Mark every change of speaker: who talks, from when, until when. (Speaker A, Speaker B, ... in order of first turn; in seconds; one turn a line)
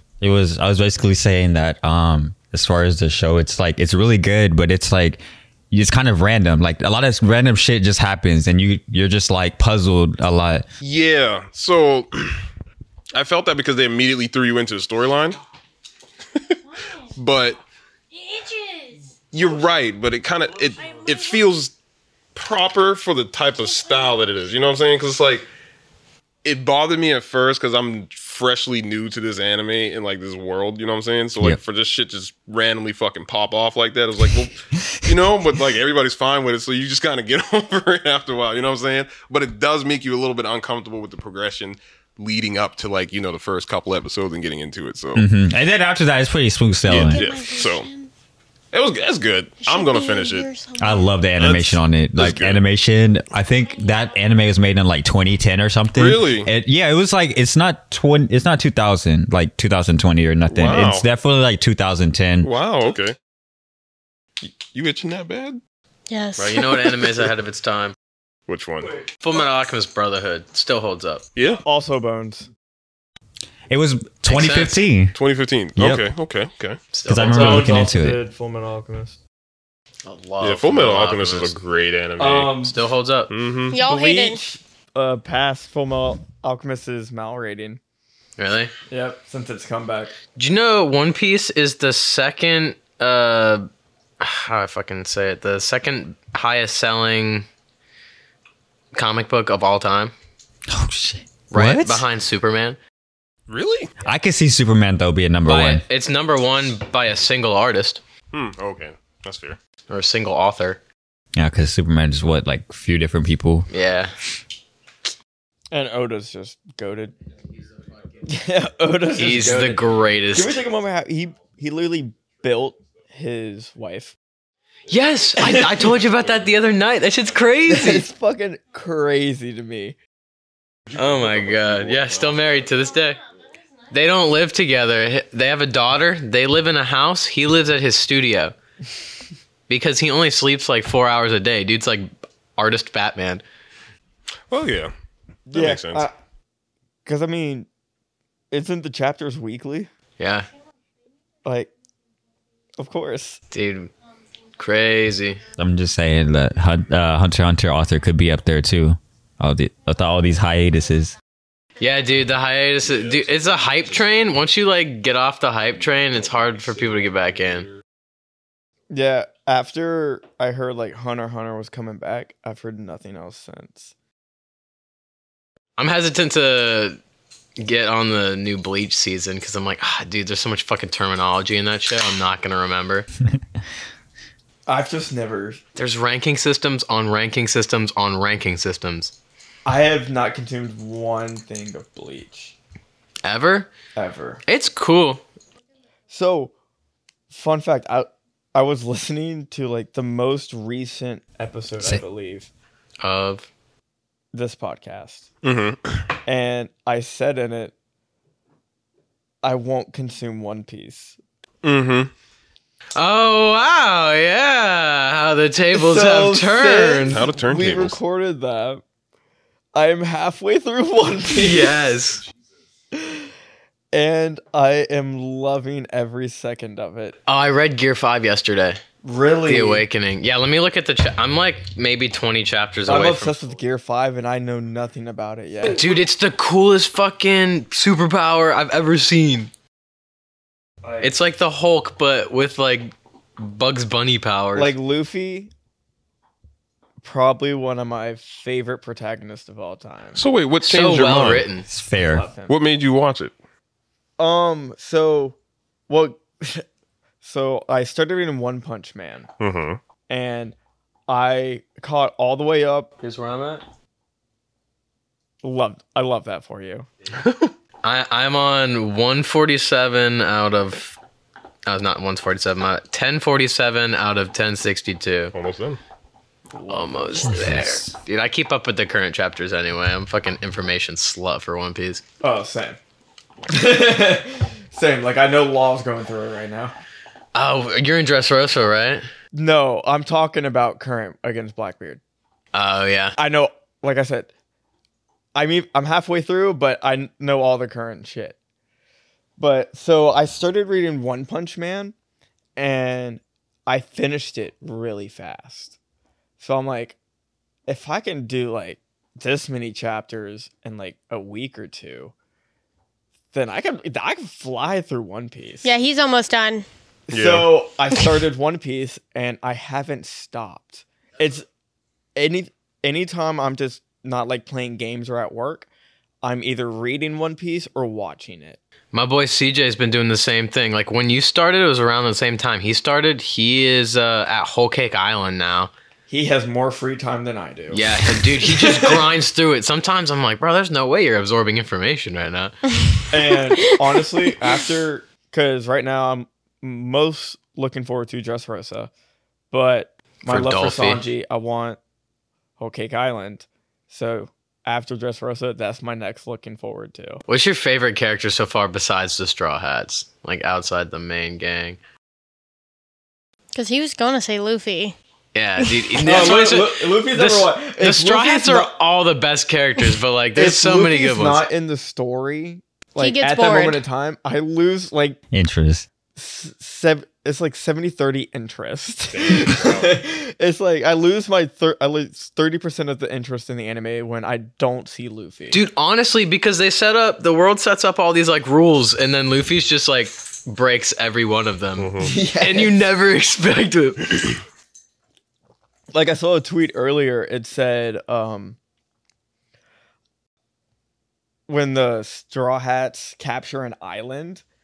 Speaker A: 0.2-10.7
Speaker B: 10.8-12.4
Speaker B: 13.1-15.4
Speaker B: 17.1-17.6
Speaker C: 18.1-19.0
Speaker B: 19.3-21.7
Speaker B: 22.3-25.5
Speaker B: 26.4-45.2
Speaker A: 34.8-35.2
Speaker A: 45.1-47.2
Speaker B: 46.9-47.9
Speaker C: 46.9-48.1
Speaker B: 48.7-50.5
Speaker C: 49.6-51.1
Speaker A: 50.8-62.5
Speaker B: 51.4-52.6
Speaker B: 55.9-56.5
Speaker B: 60.5-61.0
Speaker B: 62.4-63.1
Speaker B: 64.7-65.6
Speaker C: 66.1-66.9
Speaker D: 66.4-67.9
Speaker B: 68.5-69.0
Speaker D: 69.2-71.2
Speaker B: 71.3-71.6
Speaker E: 71.6-72.5
Speaker A: 73.7-75.2
Speaker D: 74.3-74.8
Speaker B: 75.1-76.8
Speaker A: 75.8-76.1
Speaker D: 76.9-77.8
Speaker A: 77.0-78.2
Speaker E: 77.2-79.2
Speaker D: 80.0-81.5
Speaker B: 80.4-82.5
Speaker E: 82.2-82.8
Speaker D: 82.6-83.3
Speaker B: 83.3-83.8
Speaker C: 83.7-84.4
Speaker E: 83.8-87.8
Speaker D: 88.4-88.7
Speaker E: 88.9-90.1
Speaker D: 90.3-93.7
Speaker D: 94.2-97.5
Speaker D: 98.9-100.1
Speaker A: 100.7-102.0
Speaker D: 101.5-102.8
Speaker B: 103.5-103.9
Speaker A: 104.0-105.8
Speaker D: 105.5-108.0
Speaker B: 108.3-109.6
Speaker D: 109.9-110.8
Speaker A: 111.3-113.7
Speaker D: 113.7-114.1
Speaker E: 115.7-117.1
Speaker E: 118.2-124.1
Speaker D: 119.2-120.6
Speaker D: 124.9-128.1
Speaker E: 125.4-126.0
Speaker E: 127.7-129.9
Speaker B: 130.9-132.0
Speaker D: 130.9-133.2
Speaker D: 133.9-138.5
Speaker D: 139.7-143.4
Speaker B: 144.5-144.9
Speaker E: 145.5-146.1
Speaker B: 145.5-146.1
Speaker E: 147.0-147.7
Speaker E: 148.5-149.9
Speaker D: 150.2-150.5
Speaker E: 151.4-151.7
Speaker E: 152.8-153.4
Speaker D: 153.5-153.9
Speaker D: 154.6-155.4
Speaker A: 155.6-161.1
Speaker D: 161.8-167.7
Speaker E: 168.9-173.9
Speaker D: 175.8-177.0
Speaker D: 177.6-183.1
Speaker E: 184.7-185.6
Speaker D: 185.8-189.1
Speaker E: 189.7-192.5
Speaker D: 193.2-193.7
Speaker E: 193.9-194.4
Speaker D: 194.5-195.2
Speaker E: 196.1-196.5
Speaker E: 197.3-202.5
Speaker D: 203.0-203.5
Speaker E: 204.3-205.3
Speaker B: 205.4-206.0
Speaker E: 206.2-207.7
Speaker E: 209.4-211.2
Speaker B: 211.6-212.1
Speaker D: 212.9-217.2
Speaker E: 215.7-218.8
Speaker B: 217.1-218.0
Speaker E: 219.7-221.8
Speaker D: 221.3-222.2
Speaker E: 222.9-223.3
Speaker E: 223.9-227.2
Speaker D: 227.3-228.8
Speaker E: 229.0-229.8
Speaker D: 229.4-233.4
Speaker E: 232.9-235.8
Speaker D: 235.6-239.5
Speaker E: 240.8-241.1
Speaker D: 241.0-244.7
Speaker E: 244.5-245.5
Speaker E: 247.0-250.2
Speaker B: 250.2-251.5
Speaker D: 250.6-251.7
Speaker A: 251.7-252.3
Speaker E: 252.0-252.6
Speaker B: 252.5-253.3
Speaker E: 254.2-255.3
Speaker E: 255.9-256.6
Speaker E: 257.2-259.3
Speaker B: 259.4-259.8
Speaker E: 260.1-260.6
Speaker E: 261.1-262.9
Speaker D: 263.0-263.6
Speaker E: 265.4-266.9
Speaker B: 267.2-267.5
Speaker D: 267.8-271.0
Speaker D: 271.6-275.3
Speaker B: 275.3-275.8
Speaker E: 276.5-277.5
Speaker D: 276.7-282.0
Speaker A: 277.2-277.9
Speaker E: 282.2-282.8
Speaker E: 283.5-286.7
Speaker D: 287.3-289.1
Speaker E: 289.3-292.0
Speaker D: 292.5-293.1
Speaker E: 293.2-294.3
Speaker E: 295.3-298.4
Speaker E: 299.4-301.9
Speaker E: 302.6-305.8
Speaker E: 306.4-307.0
Speaker E: 307.7-312.1
Speaker E: 313.3-315.7
Speaker C: 315.6-316.6
Speaker E: 317.1-321.4
Speaker B: 317.1-317.5
Speaker E: 322.1-325.7
Speaker E: 326.2-328.6
Speaker D: 328.9-335.7
Speaker E: 336.1-339.1
Speaker D: 337.7-342.6
Speaker E: 343.1-348.9
Speaker E: 349.5-351.8
Speaker D: 350.3-351.0
Speaker E: 352.6-357.2
Speaker D: 357.3-361.8
Speaker C: 363.5-364.9
Speaker D: 365.3-371.4
Speaker E: 366.0-368.7
Speaker E: 370.3-375.2
Speaker C: 373.0-373.8
Speaker A: 375.3-375.9
Speaker E: 376.1-385.6
Speaker B: 379.1-380.0
Speaker D: 385.5-394.4
Speaker B: 391.8-392.1
Speaker E: 392.0-392.8
Speaker E: 395.9-398.6
Speaker E: 401.5-404.4